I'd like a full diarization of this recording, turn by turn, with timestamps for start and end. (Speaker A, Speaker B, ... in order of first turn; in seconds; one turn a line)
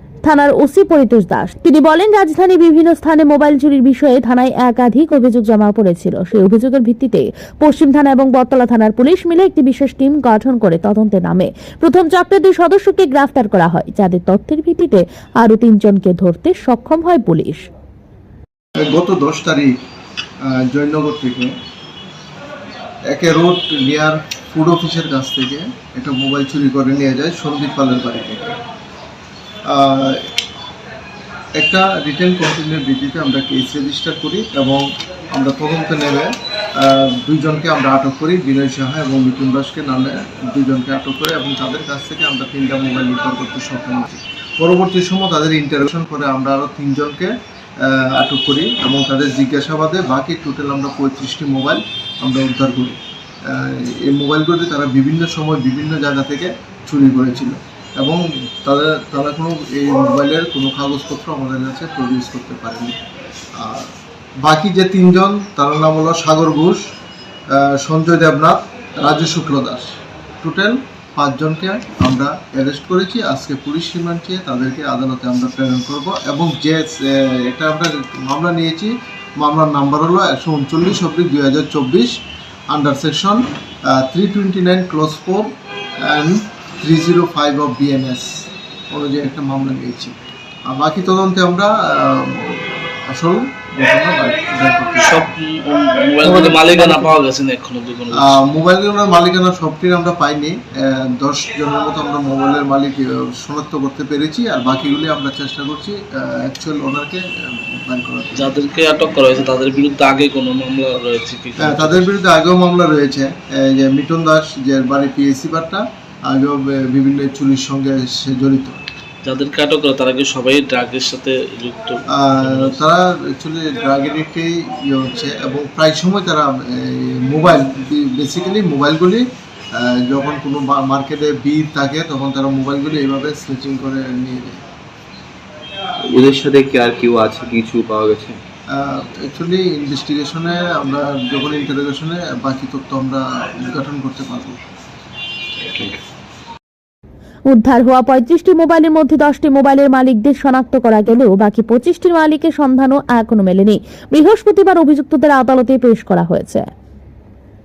Speaker A: 0.2-17.7
Speaker B: 18.9-19.7
Speaker B: 20.5-21.5
Speaker B: 23.1-28.5
Speaker B: 29.7-30.3
Speaker B: 31.6-63.0
Speaker B: 63.6-63.9
Speaker B: 64.4-66.8
Speaker B: 67.5-82.2
Speaker B: 82.7-90.2
Speaker B: 90.7-95.3
Speaker C: 95.0-98.4
Speaker B: 96.2-97.2
Speaker B: 98.2-108.5
Speaker C: 108.4-112.1
Speaker B: 111.6-118.8
Speaker C: 119.2-122.8
Speaker B: 122.1-129.2
Speaker B: 129.8-134.6
Speaker D: 136.1-138.4
Speaker B: 138.8-144.6
Speaker D: 145.6-146.0
Speaker A: 147.5-156.7